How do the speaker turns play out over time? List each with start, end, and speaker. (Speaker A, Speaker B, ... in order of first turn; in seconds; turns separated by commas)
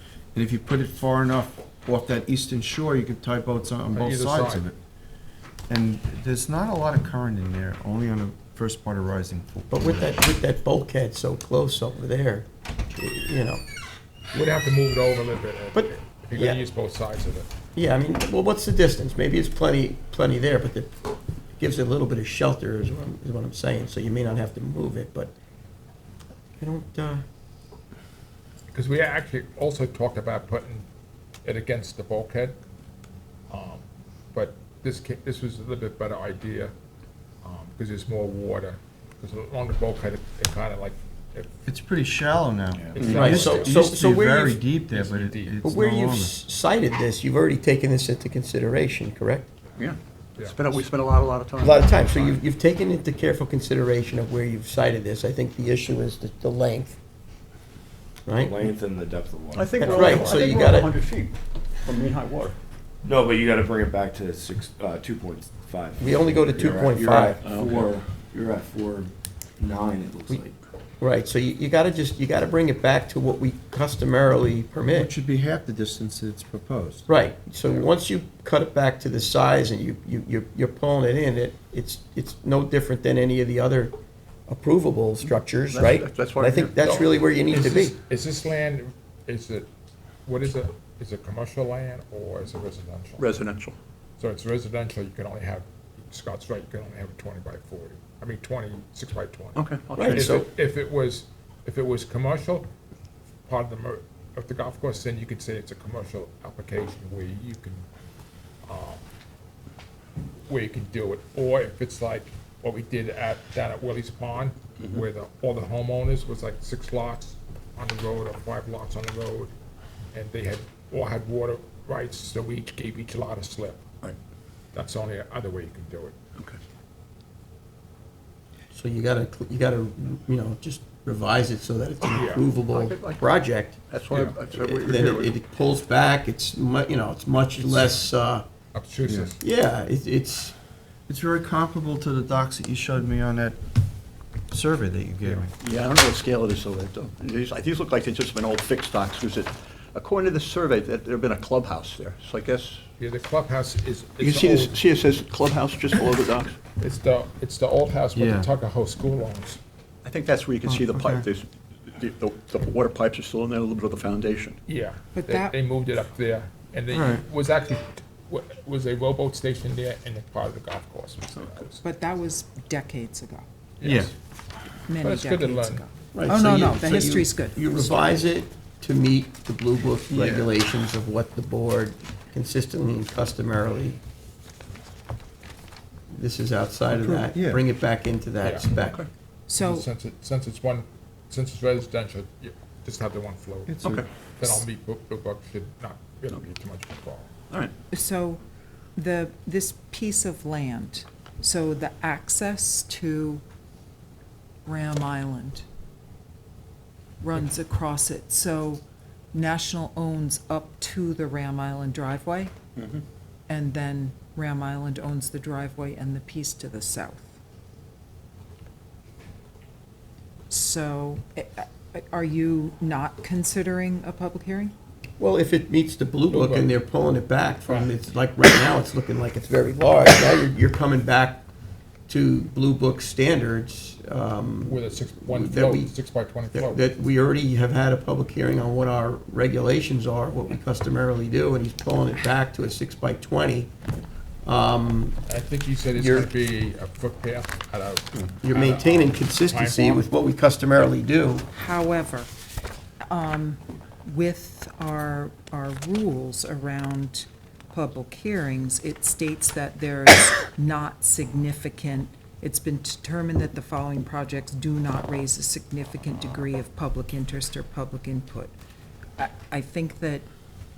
Speaker A: 0.3-4.8, Speaker B: 3.9-4.7, Speaker A: 5.7-10.2, Speaker C: 9.7-13.6, Speaker B: 14.3-17.5, Speaker C: 15.7-16.6, Speaker C: 17.7-20.9, Speaker C: 21.6-25.3, Speaker C: 26.6-27.2, Speaker B: 28.7-30.9, Speaker B: 31.4-32.5, Speaker B: 33.5-33.8, Speaker B: 34.3-36.7, Speaker B: 37.4-41.5, Speaker A: 41.6-46.4, Speaker D: 42.8-43.1, Speaker B: 42.9-43.8, Speaker E: 43.0-43.3, Speaker C: 43.1-44.7, Speaker B: 44.8-45.6, Speaker C: 45.6-49.5, Speaker E: 49.8-52.4, Speaker B: 50.4-50.7, Speaker C: 51.6-57.0, Speaker C: 58.3-58.5, Speaker D: 58.3-60.4, Speaker E: 59.5-62.5, Speaker C: 59.8-60.9, Speaker D: 63.0-70.6, Speaker C: 66.0-67.4, Speaker E: 67.4-67.9, Speaker C: 71.0-75.1, Speaker A: 74.8-77.1, Speaker C: 77.1-83.9, Speaker C: 84.5-88.0, Speaker E: 85.2-86.9, Speaker B: 86.8-89.7, Speaker B: 90.2-93.3, Speaker E: 93.2-93.7, Speaker B: 94.2-102.7, Speaker E: 99.5-100.4, Speaker C: 100.0-100.5, Speaker B: 103.5-107.8, Speaker B: 108.7-109.0, Speaker B: 110.5-119.5, Speaker B: 120.1-123.8, Speaker B: 124.7-126.2, Speaker C: 128.7-133.8, Speaker B: 132.1-132.4, Speaker E: 132.7-133.2, Speaker E: 133.9-135.3, Speaker B: 134.1-134.4, Speaker C: 134.5-138.4, Speaker B: 138.7-139.4, Speaker A: 139.1-139.3, Speaker C: 139.4-140.5, Speaker A: 141.1-143.6, Speaker A: 144.5-145.5, Speaker E: 145.5-152.8, Speaker B: 153.0-154.8, Speaker E: 154.2-156.6, Speaker B: 156.8-159.6, Speaker A: 158.1-158.5, Speaker E: 160.0-164.6, Speaker A: 160.7-161.2, Speaker B: 164.7-171.8, Speaker F: 165.1-165.5, Speaker A: 166.9-167.2, Speaker F: 171.8-173.4, Speaker B: 173.8-174.1, Speaker A: 173.8-174.1, Speaker F: 174.9-178.2, Speaker B: 175.0-175.8, Speaker C: 176.1-184.0, Speaker A: 180.1-180.5, Speaker C: 186.1-189.0, Speaker A: 186.9-187.6, Speaker B: 188.4-188.7, Speaker E: 188.8-189.1, Speaker F: 189.5-189.9, Speaker B: 189.6-197.3, Speaker A: 193.7-194.0, Speaker E: 193.8-194.6, Speaker E: 197.5-197.7, Speaker F: 197.9-198.4, Speaker F: 198.9-203.4, Speaker F: 204.7-205.6, Speaker F: 207.2-208.8, Speaker F: 209.3-212.5, Speaker E: 212.8-213.0, Speaker F: 213.5-217.3, Speaker F: 220.5-224.7, Speaker C: 225.2-231.4, Speaker B: 226.3-226.7, Speaker B: 227.7-227.9, Speaker C: 232.1-235.9, Speaker B: 234.6-236.8, Speaker C: 236.5-243.7, Speaker C: 244.4-245.2, Speaker B: 245.3-250.0, Speaker C: 245.9-246.3, Speaker C: 248.4-251.4, Speaker F: 251.5-252.3, Speaker F: 253.1-268.5, Speaker F: 269.2-270.2